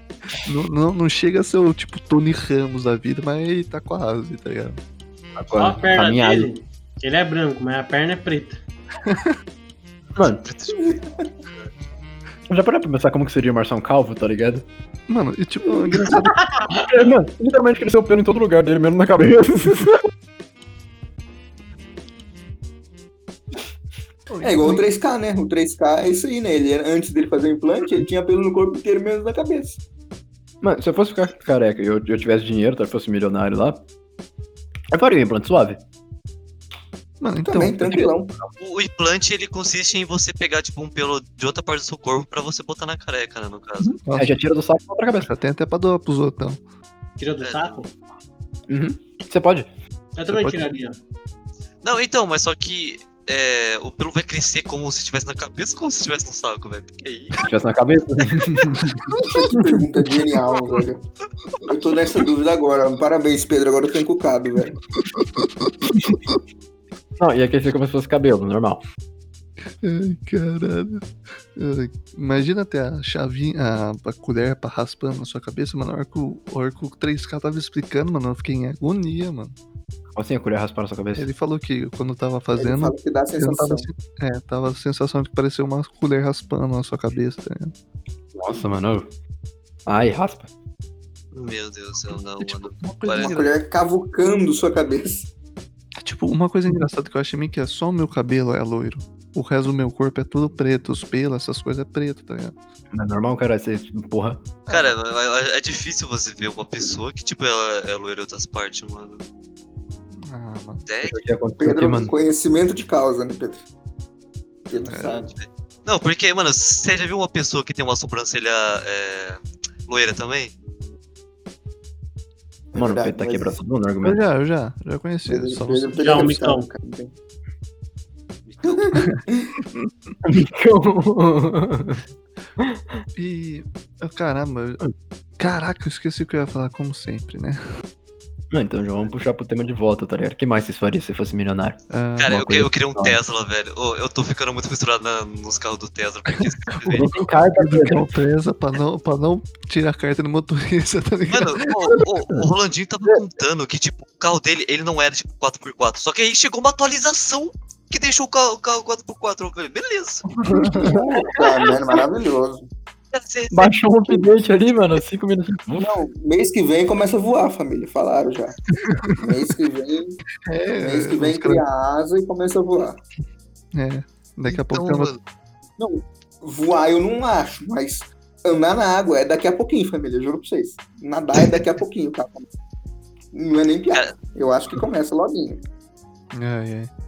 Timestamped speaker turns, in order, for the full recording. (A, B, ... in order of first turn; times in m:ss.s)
0:00.4-0:04.8 A
0:05.4-0:06.5 B
0:05.5-0:08.6 C
0:09.0-0:09.4 A
0:10.2-0:10.4 B
0:10.2-0:11.7 D
0:10.7-0:11.2 E
0:12.5-0:14.6 B
0:15.1-0:16.5 A
0:16.0-0:16.8 C
0:16.8-0:20.0 B
0:24.3-0:24.9 A
0:24.4-0:29.8 E
0:30.6-0:33.8 B
0:34.9-0:35.8 B
0:37.2-0:38.1 A
0:37.5-0:38.4 E
0:38.6-0:44.0 D
0:43.8-0:44.4 A
0:44.2-0:45.3 B
0:45.2-0:46.6 A
0:47.2-0:47.9 C
0:47.4-0:47.8 D
0:48.7-0:49.7 B
0:50.2-0:51.0 C
0:50.3-0:50.6 A
0:51.8-0:57.4 D
0:57.4-0:59.6 B
0:59.2-1:01.0 E
1:01.6-1:04.8 E
1:05.1-1:06.4 A
1:05.9-1:06.2 B
1:07.2-1:08.8 B
1:09.8-1:19.5 A
1:20.2-1:21.3 B
1:21.2-1:27.7 A
1:22.6-1:23.9 E
1:28.4-1:29.1 B
1:29.9-1:30.5 B
1:31.3-1:33.4 D
1:32.4-1:33.5 A
1:33.2-1:35.3 E
1:36.0-1:42.6 A
1:42.9-1:44.4 B
1:44.7-1:45.0 A
1:44.7-1:49.2 D
1:50.2-1:50.8 A
1:50.9-1:51.2 D
1:51.0-1:52.1 B
1:51.6-1:53.6 E
1:54.7-1:55.3 E
1:54.8-2:00.6 D
1:54.9-1:55.2 A
2:02.7-2:03.6 E
2:02.8-2:04.2 B
2:04.0-2:06.3 A
2:05.3-2:07.1 E
2:06.0-2:06.7 C
2:08.5-2:08.8 D
2:08.6-2:09.6 E
2:10.2-2:12.0 B
2:13.2-2:14.8 A
2:15.4-2:17.6 A
2:18.5-2:23.2 B
2:21.9-2:22.5 A
2:22.2-2:27.1 D
2:26.4-2:32.1 A
2:26.9-2:28.1 B
2:31.3-2:40.3 D
2:40.4-2:41.0 A
2:40.6-2:42.7 E
2:40.6-2:41.5 B
2:43.1-2:43.8 D
2:43.5-2:45.9 B
2:45.8-2:50.2 E
2:48.8-2:49.2 A
2:50.5-2:51.6 A
2:50.8-2:53.0 E
2:53.7-2:55.1 A
2:54.5-2:55.2 D
2:55.8-3:02.5 E
3:03.3-3:05.6 E
3:06.3-3:06.9 A